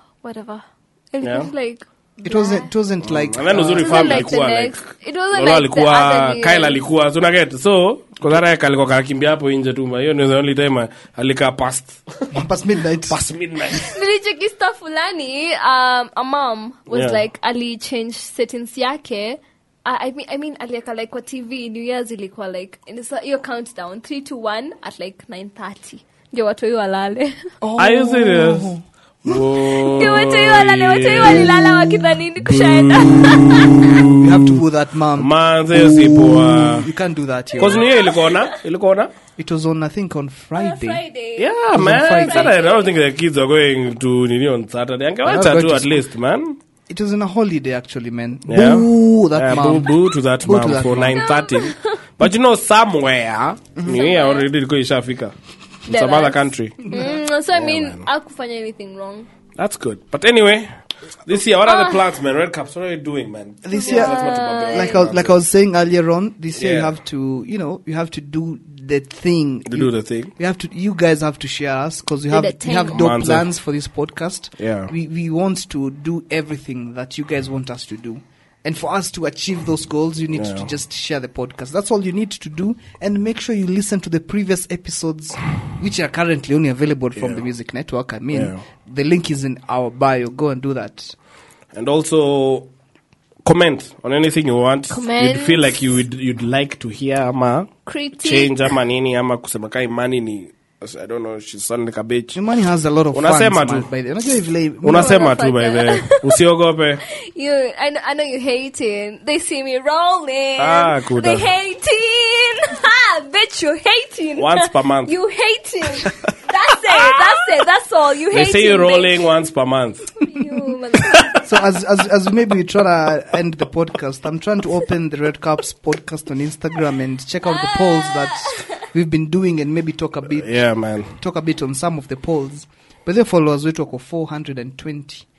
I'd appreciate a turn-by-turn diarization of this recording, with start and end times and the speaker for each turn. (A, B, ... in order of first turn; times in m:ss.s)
0:00.2-0:02.7 A
0:01.2-0:01.5 B
0:02.2-0:04.3 C
0:03.0-0:12.4 B
0:03.7-0:06.8 A
0:12.3-0:13.2 C
0:13.1-0:14.0 B
0:13.7-0:27.4 A
0:16.9-0:17.2 B
0:27.6-0:29.4 C
0:27.8-0:28.7 B
0:29.2-0:31.8 B
0:29.6-0:34.0 A
0:32.4-0:34.6 B
0:34.1-0:37.8 C
0:35.2-0:36.9 B
0:37.6-0:38.5 A
0:37.6-0:39.1 B
0:39.4-0:41.0 C
0:40.6-0:42.9 A
0:41.4-0:46.6 B
0:41.7-0:42.5 C
0:45.2-0:46.0 C
0:46.9-0:49.9 C
0:48.5-0:55.3 B
0:50.4-0:51.2 C
0:51.1-0:52.0 A
0:53.8-0:54.0 C
0:53.8-0:54.5 A
0:55.8-0:58.0 B
0:55.9-0:59.3 A
0:56.8-0:57.2 C
0:59.6-1:00.7 B
1:01.2-1:05.4 B
1:01.6-1:02.0 A
1:03.6-1:31.2 C
1:03.7-1:05.0 A
1:06.5-1:07.0 B
1:09.7-1:10.3 B
1:12.3-1:13.0 A
1:12.9-1:13.5 B
1:14.6-1:14.9 B
1:20.3-1:20.7 B
1:27.2-1:27.4 B
1:28.3-1:28.6 B
1:31.7-1:32.7 B
1:33.4-1:42.4 B
1:34.9-1:35.8 A
1:37.9-1:38.6 A
1:42.3-1:45.2 C
1:43.1-1:43.9 B
1:44.8-1:47.0 B
1:44.9-1:46.4 A
1:47.1-1:59.2 A
1:50.6-1:51.5 B
1:54.4-1:55.1 B
1:56.9-1:57.2 B
1:58.3-2:00.1 B
2:00.2-2:01.4 A
2:01.4-2:10.5 C
2:07.4-2:08.6 A
2:10.3-2:11.1 B
2:11.2-2:15.2 C